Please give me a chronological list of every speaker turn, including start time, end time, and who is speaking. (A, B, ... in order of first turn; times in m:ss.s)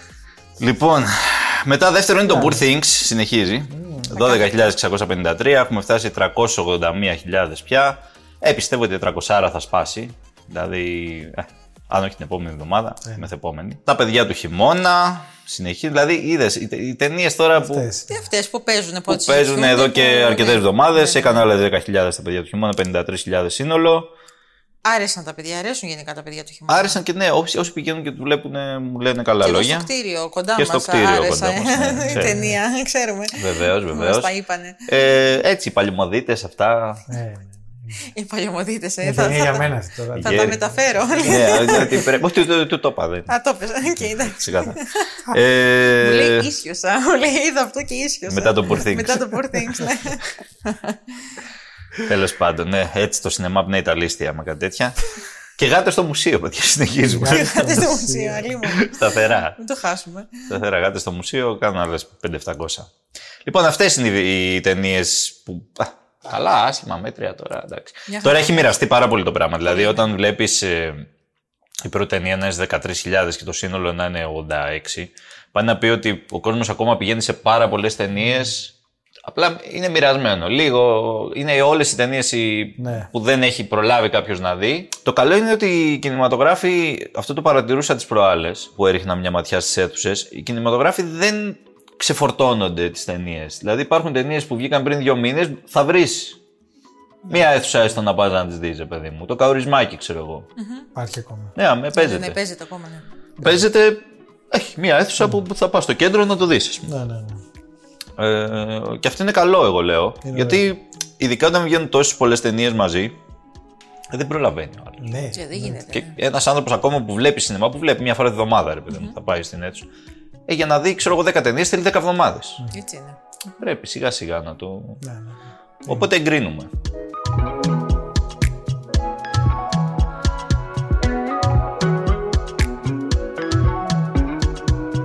0:00.6-0:17.9 A
0:02.2-0:02.6 B
0:03.7-0:04.1 B
0:04.1-0:04.7 C
0:13.0-0:13.3 B
0:17.6-0:18.2 B
0:18.1-0:21.4 C
0:19.1-0:24.1 A
0:24.8-0:27.0 C
0:26.7-0:29.9 A
0:29.4-0:34.8 C
0:30.6-0:32.4 A
0:32.1-0:32.6 B
0:33.4-0:34.3 A
0:34.9-0:37.0 A
0:37.1-0:38.0 B
0:38.2-0:39.6 C
0:39.0-0:41.8 B
0:40.2-0:42.0 C
0:40.2-0:40.6 A
0:41.2-0:43.3 A
0:43.3-0:45.1 C
0:44.0-0:44.8 A
0:45.3-0:46.5 A
0:46.0-0:51.0 C
0:48.3-0:49.2 A
0:52.0-0:55.0 A
0:55.6-0:57.8 A
0:57.0-0:58.6 B
0:57.2-1:00.3 C
0:58.7-0:59.6 A
1:00.5-1:02.9 A
1:03.4-1:11.1 A
1:08.1-1:08.7 C
1:09.6-1:10.0 C
1:11.8-1:18.7 A
1:19.3-1:36.4 A
1:22.8-1:23.1 B
1:37.3-1:40.5 A
1:40.6-1:40.9 C
1:40.9-1:41.5 B
1:41.6-1:42.4 A
1:41.9-1:43.1 C
1:43.4-1:46.9 A
1:46.9-1:47.4 B
1:48.2-1:53.1 A
1:50.2-1:50.7 B
1:54.1-1:55.3 A
1:55.0-1:55.8 B
1:55.3-1:56.2 C
1:55.9-1:59.9 A
2:00.5-2:02.6 A
2:02.7-2:03.2 C
2:03.6-2:05.0 A
2:05.0-2:06.1 B
2:05.9-2:06.7 A